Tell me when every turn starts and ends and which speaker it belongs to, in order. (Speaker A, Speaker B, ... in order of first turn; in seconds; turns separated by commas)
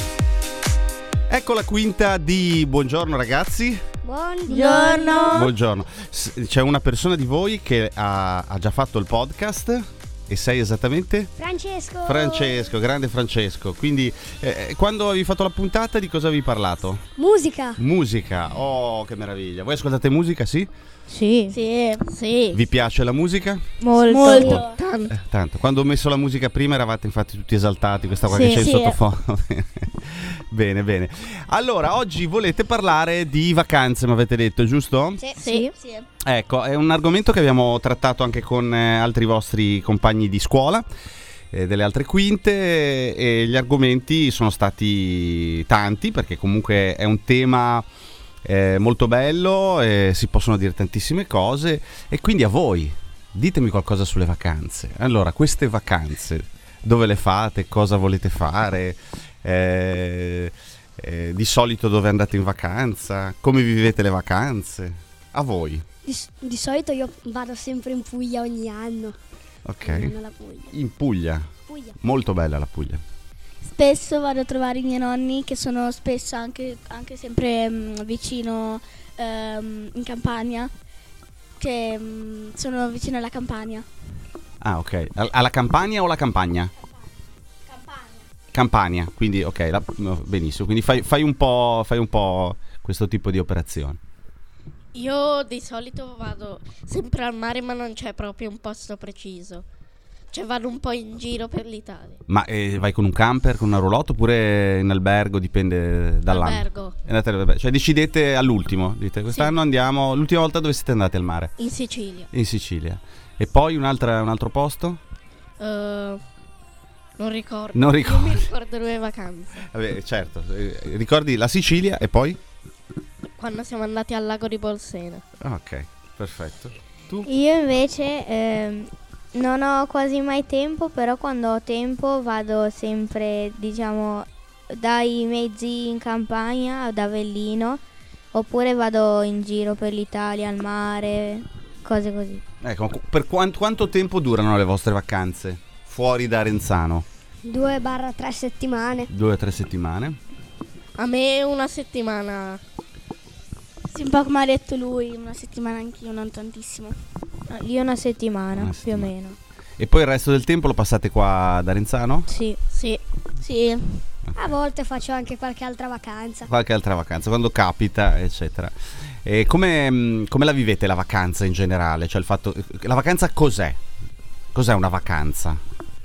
Speaker A: 1.3-3.8, Speaker B: 4.0-5.5, Speaker C: 4.5-5.4, Speaker A: 5.3-11.3, Speaker B: 11.4-12.6, Speaker A: 12.1-17.0, Speaker B: 17.2-17.8, Speaker A: 17.8-20.7, Speaker D: 21.1-21.6, Speaker C: 21.5-22.1, Speaker E: 22.1-22.6, Speaker A: 22.5-23.6, Speaker D: 23.8-24.4, Speaker C: 24.1-24.8, Speaker E: 24.2-25.1, Speaker B: 24.3-24.6, Speaker A: 25.1-35.2, Speaker E: 28.3-28.7, Speaker C: 28.5-29.0, Speaker B: 35.2-35.7, Speaker E: 35.4-35.7, Speaker C: 35.5-36.1, Speaker A: 36.2-40.9, Speaker A: 41.5-47.9, Speaker A: 48.5-65.8, Speaker B: 66.0-69.2, Speaker A: 69.7-70.2, Speaker B: 69.8-70.7, Speaker A: 70.7-71.5, Speaker B: 71.7-72.0, Speaker A: 72.0-73.0, Speaker C: 73.7-80.7, Speaker C: 81.6-83.8, Speaker A: 84.6-86.7, Speaker C: 87.7-88.2, Speaker A: 88.5-94.0, Speaker E: 95.0-99.7, Speaker E: 100.3-102.2, Speaker A: 102.3-111.5, Speaker E: 106.3-107.0, Speaker E: 109.3-109.5, Speaker E: 111.6-112.3, Speaker A: 112.3-115.0, Speaker E: 115.6-116.2, Speaker E: 117.2-119.6, Speaker A: 117.8-118.5, Speaker A: 119.7-122.4, Speaker E: 123.4-125.2, Speaker A: 125.4-127.3, Speaker D: 127.2-137.8, Speaker D: 138.3-142.4, Speaker A: 142.6-147.1, Speaker B: 147.4-149.1, Speaker A: 149.1-150.2, Speaker E: 151.0-152.6, Speaker C: 153.9-156.9, Speaker D: 157.5-159.4, Speaker A: 158.6-159.1, Speaker A: 159.8-162.3, Speaker D: 162.3-162.6, Speaker E: 162.7-163.0, Speaker C: 163.4-164.0, Speaker B: 164.4-166.5, Speaker A: 166.5-173.8, Speaker A: 174.5-175.6